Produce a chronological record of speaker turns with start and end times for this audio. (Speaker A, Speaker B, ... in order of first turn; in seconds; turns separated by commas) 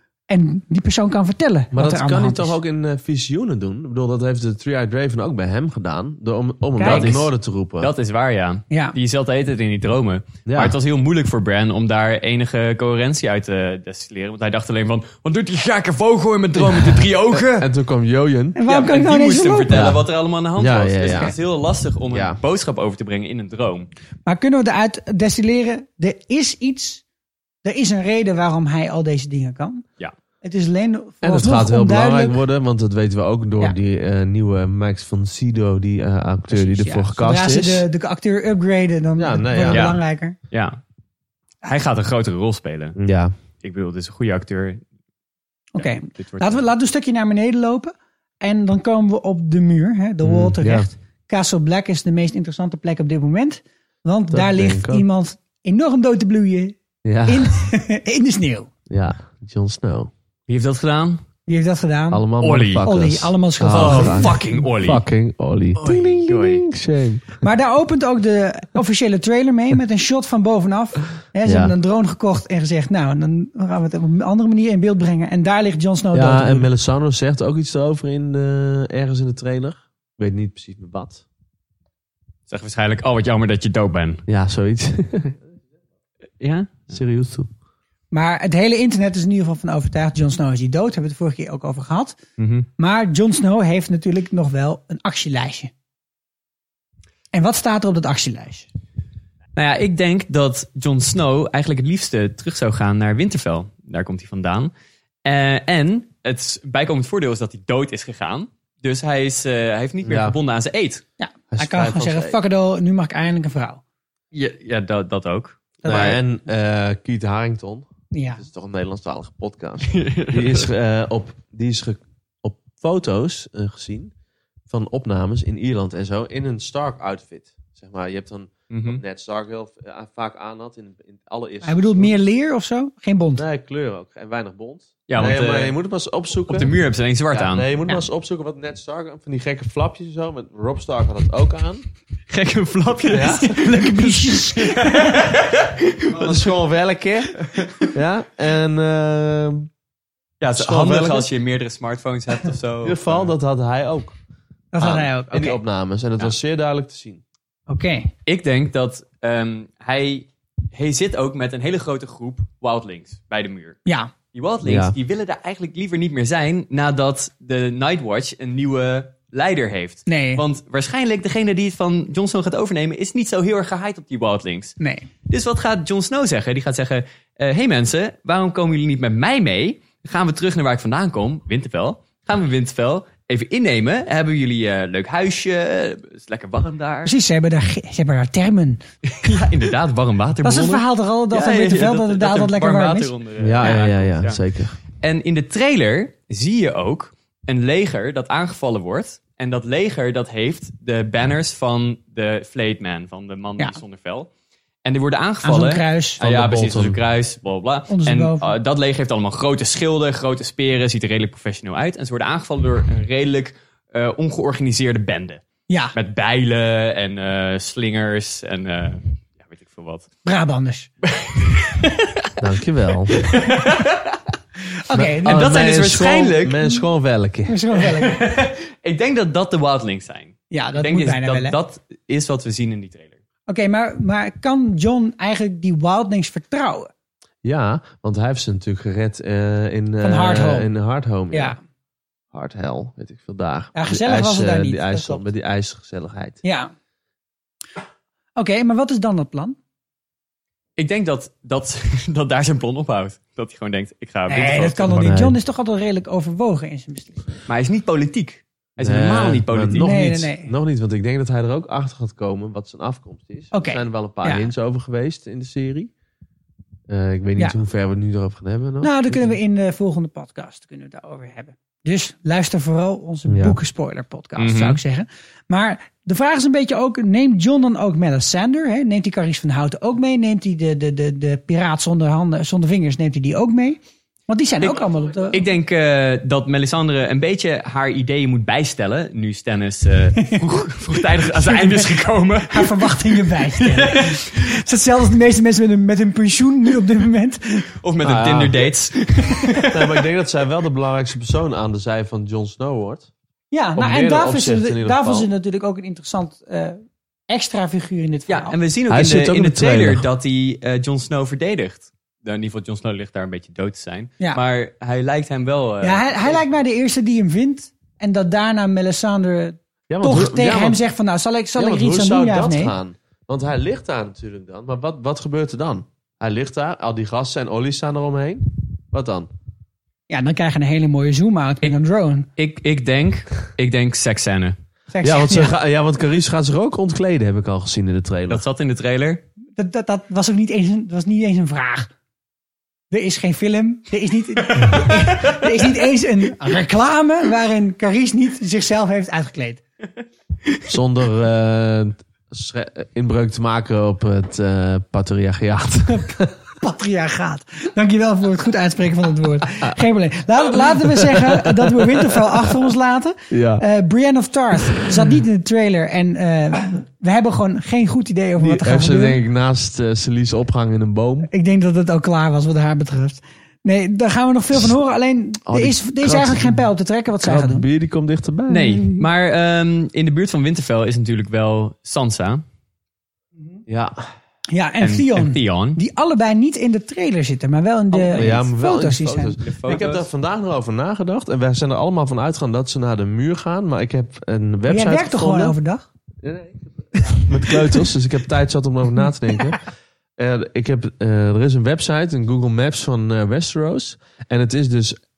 Speaker A: 0.3-2.5, Speaker B: 1.7-7.9, Speaker A: 6.8-7.1, Speaker C: 6.8-17.7, Speaker B: 10.5-10.8, Speaker B: 16.8-18.6, Speaker A: 18.6-19.9, Speaker C: 18.6-23.9, Speaker B: 19.7-20.1, Speaker B: 20.6-21.4, Speaker B: 22.1-22.4, Speaker A: 24.3-27.0, Speaker A: 27.6-29.8, Speaker A: 30.4-32.4, Speaker B: 31.2-37.9, Speaker A: 36.5-40.4, Speaker B: 39.2-39.9, Speaker C: 39.7-40.0, Speaker C: 40.5-40.8, Speaker C: 41.6-43.0, Speaker B: 43.0-43.3, Speaker C: 43.6-44.8, Speaker A: 45.8-58.7, Speaker C: 45.8-46.6, Speaker B: 50.2-50.9, Speaker B: 54.3-55.1, Speaker B: 57.0-57.6, Speaker B: 58.9-60.1, Speaker C: 60.5-61.2, Speaker A: 61.5-62.2, Speaker B: 62.1-67.4, Speaker C: 62.4-62.9, Speaker A: 62.8-64.3, Speaker C: 63.7-65.0, Speaker C: 65.8-66.7, Speaker A: 67.4-76.7, Speaker B: 71.5-71.7, Speaker B: 76.1-81.2, Speaker C: 82.5-84.2, Speaker B: 84.3-85.4, Speaker C: 86.4-86.9, Speaker B: 86.9-87.5, Speaker A: 88.1-92.2, Speaker C: 92.4-92.7, Speaker A: 92.8-95.7, Speaker A: 97.3-98.7, Speaker C: 99.6-104.7, Speaker C: 105.2-111.0, Speaker B: 110.0-110.3, Speaker A: 111.2-113.8, Speaker B: 111.5-112.4, Speaker C: 114.3-116.1, Speaker A: 115.8-116.2, Speaker B: 115.9-117.9, Speaker A: 118.1-118.4, Speaker B: 118.4-124.1, Speaker C: 119.9-120.7, Speaker B: 124.7-132.1, Speaker C: 128.7-129.0, Speaker A: 131.6-133.4, Speaker B: 133.4-136.8, Speaker C: 135.1-135.8, Speaker C: 136.5-137.7, Speaker B: 137.3-141.8, Speaker C: 142.3-146.5, Speaker B: 143.1-143.5, Speaker A: 143.1-145.3, Speaker B: 146.1-149.7, Speaker C: 147.5-147.9, Speaker C: 150.4-153.3, Speaker B: 150.6-151.3, Speaker B: 152.8-154.2, Speaker A: 154.7-155.6, Speaker B: 154.8-157.2, Speaker A: 157.7-158.1, Speaker C: 158.3-163.8, Speaker A: 163.9-164.1, Speaker C: 164.3-174.8, Speaker B: 164.6-164.9, Speaker A: 170.1-170.4, Speaker A: 174.8-175.1, Speaker C: 175.3-187.1, Speaker A: 187.1-188.8, Speaker C: 189.1-194.4, Speaker A: 190.4-193.9, Speaker B: 193.4-194.8, Speaker C: 195.0-204.3, Speaker C: 204.8-215.4, Speaker A: 205.4-206.2, Speaker B: 206.2-207.0, Speaker A: 207.9-208.5, Speaker C: 215.9-220.1, Speaker A: 220.2-220.9, Speaker C: 221.0-222.1, Speaker B: 222.4-223.2, Speaker C: 223.2-224.2, Speaker A: 224.9-225.6, Speaker B: 224.9-227.6, Speaker C: 225.3-226.7, Speaker A: 227.5-228.3, Speaker C: 227.9-233.2, Speaker A: 230.5-231.6, Speaker A: 233.5-236.9, Speaker B: 237.4-241.6, Speaker A: 240.0-240.7, Speaker A: 241.3-241.6, Speaker B: 242.3-246.4, Speaker A: 243.8-245.2, Speaker A: 246.4-246.7, Speaker A: 248.4-249.6, Speaker C: 250.8-255.0, Speaker A: 254.3-257.4, Speaker B: 254.9-255.4, Speaker C: 257.5-260.2, Speaker B: 258.8-265.9, Speaker A: 259.8-260.5, Speaker A: 263.5-264.5, Speaker B: 266.9-269.4, Speaker A: 268.8-285.4, Speaker B: 273.3-273.6, Speaker C: 274.4-274.8, Speaker C: 284.6-294.4, Speaker A: 291.1-297.7, Speaker C: 297.8-299.9, Speaker B: 298.0-298.7, Speaker B: 299.7-303.1, Speaker A: 303.5-306.8, Speaker B: 303.8-305.3, Speaker A: 307.3-308.6, Speaker C: 308.3-316.4, Speaker B: 308.9-310.1, Speaker A: 315.8-322.8, Speaker B: 319.9-320.8, Speaker B: 321.6-329.3, Speaker A: 330.1-332.3, Speaker C: 332.4-334.6, Speaker A: 334.9-335.5, Speaker B: 335.0-338.4, Speaker C: 338.3-339.2, Speaker A: 339.6-341.9, Speaker A: 342.9-349.6, Speaker C: 344.7-345.2, Speaker B: 350.7-356.3, Speaker A: 355.9-369.2, Speaker B: 360.7-362.6, Speaker B: 363.3-363.6, Speaker B: 368.4-371.3, Speaker A: 371.3-377.7, Speaker B: 375.5-376.6, Speaker B: 377.2-379.1, Speaker C: 378.5-382.4, Speaker B: 383.7-384.0, Speaker A: 384.5-389.4, Speaker C: 384.8-385.8, Speaker C: 387.9-388.4, Speaker B: 388.2-395.6, Speaker C: 389.4-390.1, Speaker A: 394.7-395.8, Speaker B: 396.2-399.6, Speaker A: 397.0-397.8, Speaker B: 400.2-405.0